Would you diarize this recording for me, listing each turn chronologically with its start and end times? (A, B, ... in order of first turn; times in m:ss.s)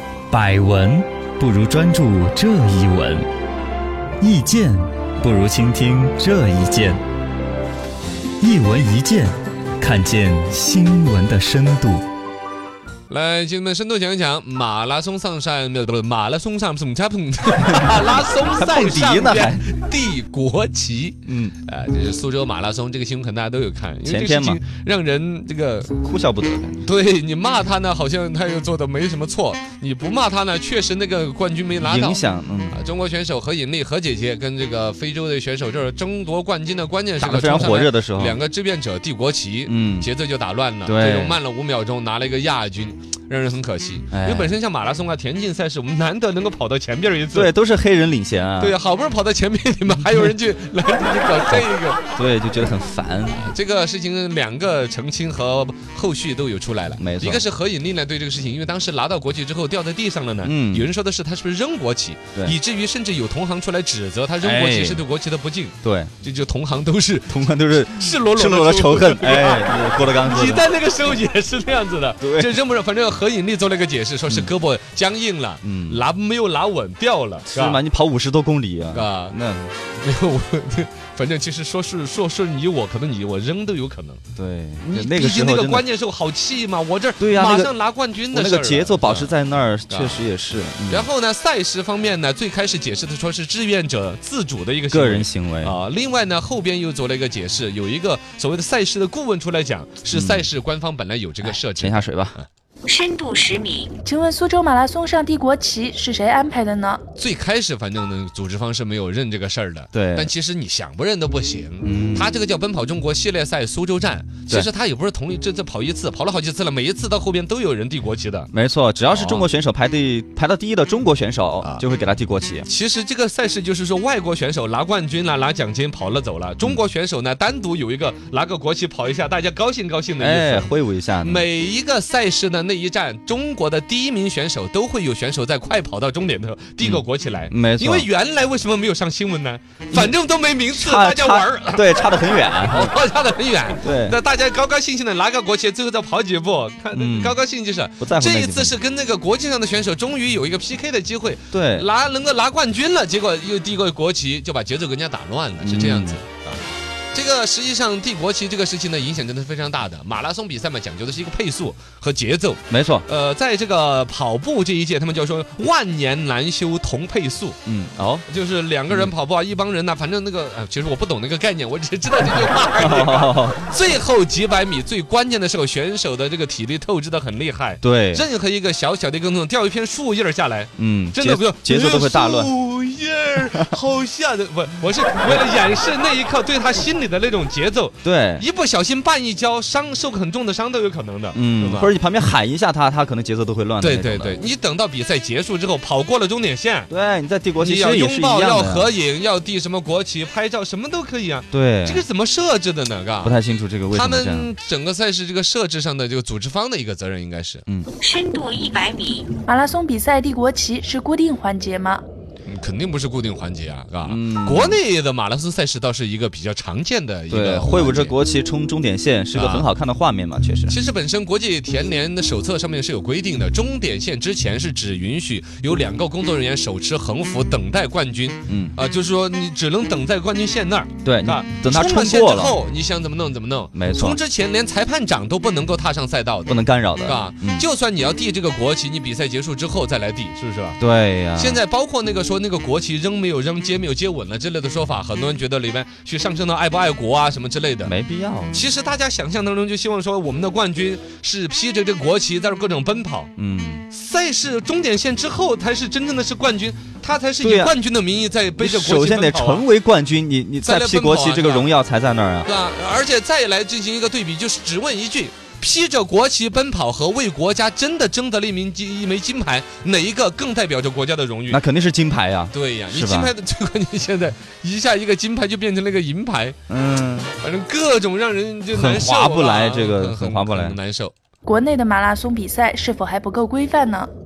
0:00.3-0:03.2 A
0:04.2-0:07.0 A
0:08.4-0:12.0 A
0:13.1-0:26.0 B
0:17.6-0:19.7 A
0:21.3-0:21.6 A
0:24.0-0:24.6 A
0:26.0-0:26.8 A
0:26.8-0:47.5 B
0:31.8-0:32.8 A
0:37.2-0:38.4 A
0:39.7-0:40.1 A
0:40.8-0:41.4 A
0:44.1-0:44.6 A
0:47.3-0:48.8 A
0:48.6-0:52.0 B
0:49.9-0:50.3 A
0:51.5-0:53.5 A
0:53.3-1:17.8 B
0:57.0-0:57.4 A
1:00.4-1:00.9 A
1:04.4-1:05.0 A
1:05.8-1:06.1 A
1:07.3-1:10.7 A
1:12.2-1:12.6 A
1:15.6-1:16.0 A
1:17.5-1:19.7 A
1:18.9-1:19.4 B
1:20.0-1:24.2 B
1:24.4-1:25.8 A
1:24.9-1:29.3 B
1:27.2-1:27.7 A
1:28.3-1:31.1 A
1:29.9-1:30.2 B
1:30.9-1:42.5 B
1:34.9-1:35.8 A
1:40.1-1:40.5 A
1:41.4-1:42.4 A
1:42.8-1:44.0 C
1:44.0-1:47.0 D
1:47.2-1:58.5 B
1:49.9-1:50.3 A
1:51.8-1:52.4 A
1:58.5-2:02.7 A
1:59.1-1:59.4 B
2:02.7-2:10.7 B
2:10.2-2:11.4 A
2:11.2-2:21.9 B
2:16.8-2:18.1 A
2:20.7-2:22.9 A
2:22.7-2:47.6 B
2:23.8-2:24.2 A
2:26.9-2:27.4 A
2:28.0-2:28.8 A
2:31.5-2:31.9 A
2:35.6-2:36.2 A
2:42.7-2:43.0 A
2:47.7-2:48.2 A
2:48.3-3:11.9 B
2:52.8-2:53.7 A
2:57.8-2:58.2 A
3:00.8-3:02.5 A
3:03.5-3:03.8 A
3:08.0-3:08.4 A
3:11.3-3:14.4 A
3:13.8-3:16.9 B
3:16.9-3:18.9 A
3:17.6-3:23.4 B
3:21.5-3:22.0 A
3:23.2-3:24.5 A
3:23.9-3:27.6 B
3:28.0-3:29.3 C
3:29.4-3:32.0 D
3:32.5-3:38.1 B
3:34.0-3:34.8 A
3:37.3-3:40.8 A
3:39.3-3:39.7 B
3:40.7-4:00.8 B
3:48.5-3:48.8 A
3:51.0-3:52.6 A
3:53.7-3:54.2 A
3:56.5-3:57.7 A
4:00.8-4:01.6 A
4:01.4-4:07.9 B
4:07.8-4:08.7 A
4:08.5-4:13.3 B
4:13.4-4:13.9 A
4:13.9-4:19.6 B
4:17.4-4:17.8 A
4:18.6-4:22.5 A
4:20.6-4:21.7 B
4:22.4-4:31.6 B
4:31.5-4:33.3 A
4:32.5-4:36.6 B
4:36.7-4:37.3 A
4:37.4-4:41.1 B
4:38.7-4:40.8 A
4:41.5-4:44.1 D